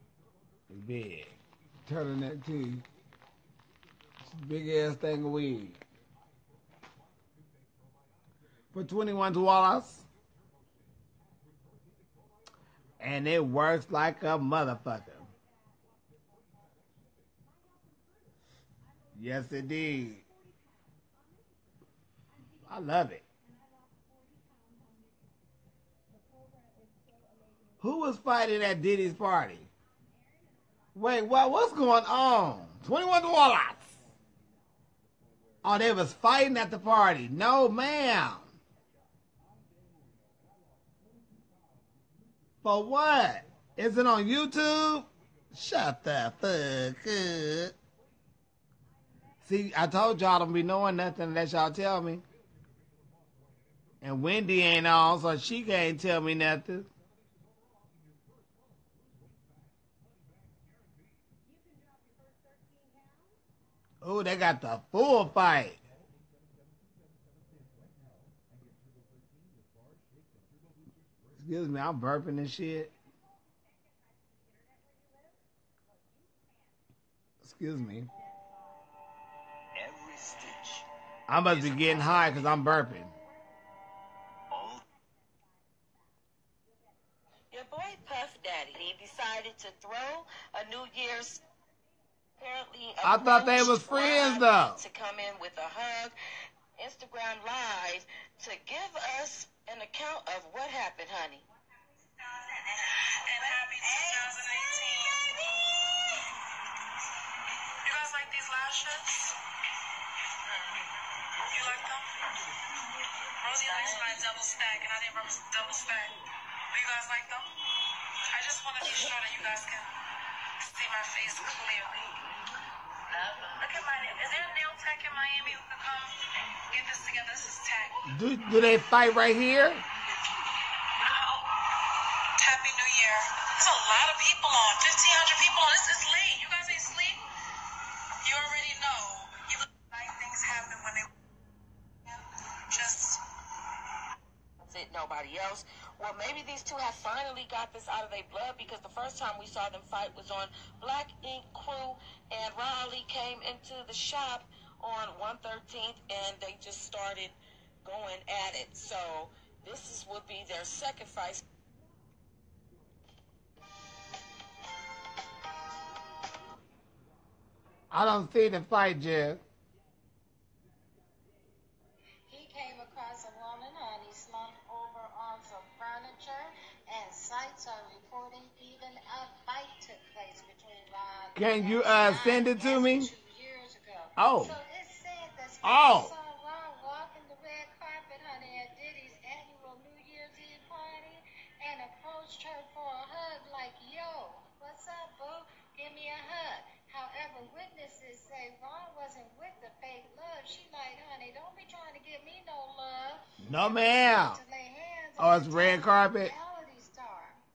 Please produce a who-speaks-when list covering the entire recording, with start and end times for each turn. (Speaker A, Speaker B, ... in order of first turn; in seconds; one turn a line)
Speaker A: 0.7-2.8
Speaker A: 4.2-5.8
Speaker A: 8.7-10.1
Speaker A: 13.0-15.3
Speaker A: 19.1-20.2
Speaker A: 22.6-23.2
Speaker A: 27.8-29.7
Speaker A: 30.9-34.0
Speaker A: 35.6-38.5
Speaker A: 42.6-47.8
Speaker A: 49.4-52.2
Speaker A: 54.0-56.9
Speaker A: 64.0-65.8
Speaker A: 71.4-72.9
Speaker A: 77.4-78.1
Speaker B: 79.8-80.9
Speaker A: 81.3-83.1
Speaker B: 81.4-82.5
Speaker B: 84.5-84.8
Speaker C: 87.5-91.4
Speaker C: 92.4-96.2
Speaker A: 93.0-94.8
Speaker C: 96.8-101.4
Speaker C: 102.2-102.8
Speaker D: 103.0-105.2
Speaker C: 103.3-104.3
Speaker D: 107.8-109.4
Speaker D: 111.5-112.3
Speaker D: 113.4-117.5
Speaker C: 113.7-114.1
Speaker D: 118.3-119.9
Speaker D: 120.6-122.2
Speaker D: 123.3-128.0
Speaker A: 128.1-129.8
Speaker D: 131.0-131.6
Speaker D: 132.4-137.2
Speaker D: 138.2-141.1
Speaker D: 142.7-143.2
Speaker C: 144.7-161.4
Speaker A: 167.9-169.4
Speaker E: 172.3-207.4
Speaker A: 181.3-183.1
Speaker A: 184.2-184.6
Speaker A: 185.6-186.1
Speaker A: 203.4-204.4
Speaker A: 205.2-206.3